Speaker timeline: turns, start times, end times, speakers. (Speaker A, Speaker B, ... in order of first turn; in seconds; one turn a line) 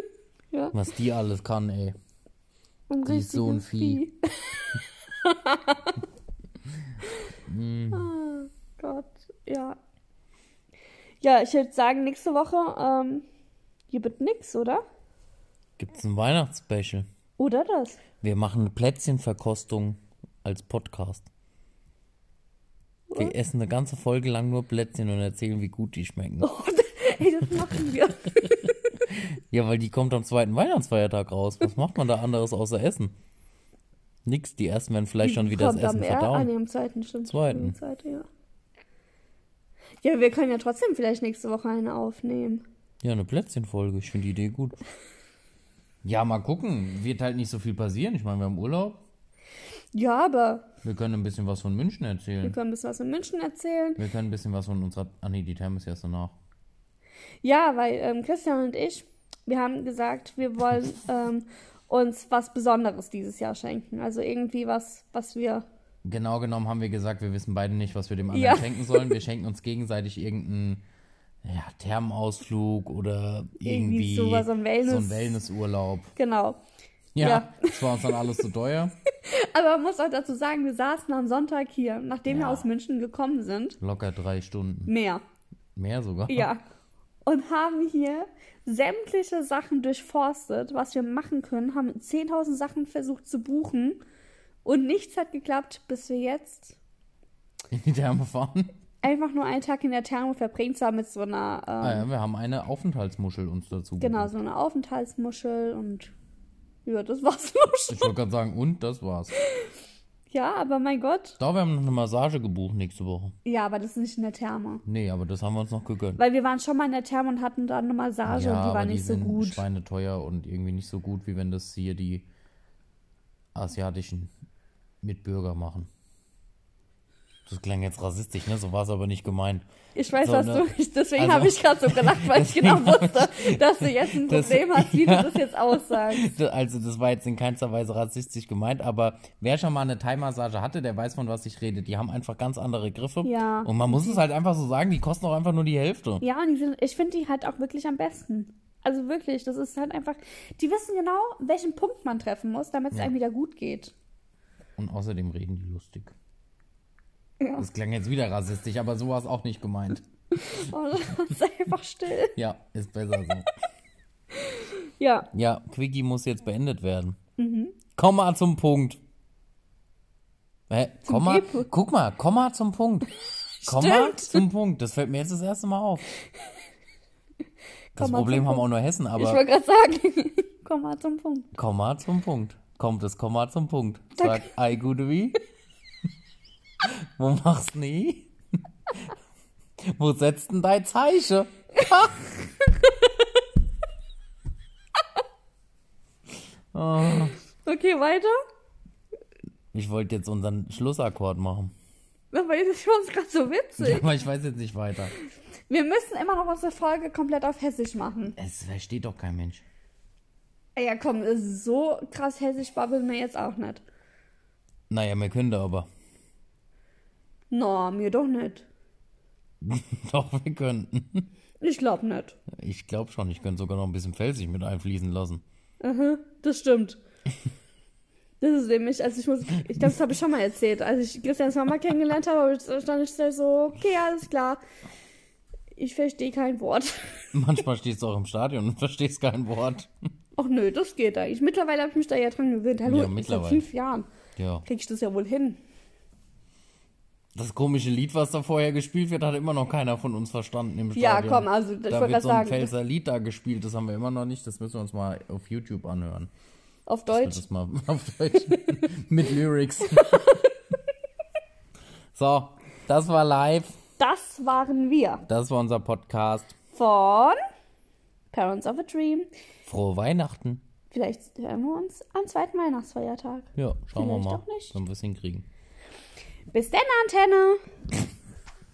Speaker A: 0.7-2.0
Speaker B: 2.9-6.0
Speaker A: 3.1-4.0
Speaker A: 7.5-8.1
Speaker B: 7.9-9.8
Speaker B: 11.2-13.2
Speaker B: 13.9-14.8
Speaker A: 15.8-17.1
Speaker B: 17.4-18.0
Speaker A: 18.2-21.3
Speaker A: 23.1-26.5
Speaker B: 26.4-29.0
Speaker A: 29.1-33.1
Speaker A: 34.3-36.5
Speaker B: 35.2-38.3
Speaker A: 37.2-37.8
Speaker B: 40.0-42.6
Speaker A: 43.0-44.8
Speaker A: 46.0-49.0
Speaker B: 49.9-50.7
Speaker A: 50.8-52.6
Speaker B: 52.4-54.0
Speaker A: 54.0-56.4
Speaker B: 57.4-65.7
Speaker A: 66.0-70.8
Speaker B: 68.3-69.2
Speaker A: 71.4-76.1
Speaker B: 73.6-75.4
Speaker B: 76.2-76.6
Speaker A: 77.2-79.0
Speaker B: 77.2-78.2
Speaker B: 79.2-83.8
Speaker A: 82.3-82.7
Speaker A: 83.8-84.9
Speaker B: 84.9-85.2
Speaker A: 85.8-86.5
Speaker B: 86.3-86.6
Speaker B: 87.2-94.0
Speaker B: 94.7-96.8
Speaker A: 97.7-98.7
Speaker B: 99.0-102.1
Speaker A: 101.8-104.3
Speaker B: 104.0-106.1
Speaker B: 106.8-108.1
Speaker A: 107.9-109.3
Speaker B: 109.4-109.7
Speaker B: 110.3-111.4
Speaker A: 111.4-113.3
Speaker B: 113.5-114.8
Speaker A: 114.8-116.2
Speaker B: 116.2-119.6
Speaker A: 118.3-122.3
Speaker A: 123.5-124.3
Speaker A: 125.0-125.9
Speaker A: 127.5-146.2
Speaker B: 130.0-136.3
Speaker B: 143.2-144.2
Speaker B: 146.2-153.9
Speaker A: 154.8-156.2
Speaker A: 157.6-160.7
Speaker B: 160.3-162.3
Speaker A: 162.3-163.5
Speaker B: 164.3-165.3
Speaker A: 165.3-167.2
Speaker B: 167.4-167.8
Speaker A: 168.0-169.0
Speaker A: 170.7-173.1
Speaker B: 171.1-171.7
Speaker B: 173.6-174.4
Speaker A: 173.7-176.1
Speaker A: 178.0-179.4
Speaker B: 178.0-178.6
Speaker B: 179.2-181.5
Speaker A: 181.6-185.4
Speaker B: 184.2-184.5
Speaker A: 186.8-188.3
Speaker A: 189.8-192.4
Speaker B: 192.6-193.3
Speaker A: 196.7-197.4
Speaker B: 197.6-198.4
Speaker A: 199.7-201.7
Speaker B: 202.3-204.1
Speaker A: 203.8-205.1
Speaker B: 205.7-208.4
Speaker A: 208.4-209.7
Speaker B: 210.8-213.8
Speaker A: 214.9-215.9
Speaker B: 217.5-218.7
Speaker A: 219.6-221.3
Speaker B: 221.6-222.4
Speaker A: 222.5-225.4
Speaker B: 225.8-227.0
Speaker B: 228.4-234.6
Speaker B: 235.8-237.3
Speaker A: 237.3-239.9
Speaker B: 240.4-244.1
Speaker A: 242.8-243.7
Speaker A: 244.4-244.7
Speaker B: 244.7-245.6
Speaker A: 247.3-256.3
Speaker B: 250.9-252.7
Speaker B: 256.9-257.4
Speaker A: 257.1-260.5
Speaker B: 258.5-258.9
Speaker B: 259.9-260.5
Speaker A: 262.1-263.8
Speaker B: 264.0-265.2
Speaker A: 265.3-266.6
Speaker B: 266.7-267.4
Speaker B: 268.3-269.3
Speaker A: 269.7-270.6
Speaker B: 270.9-274.8
Speaker A: 273.6-275.5
Speaker B: 276.5-277.6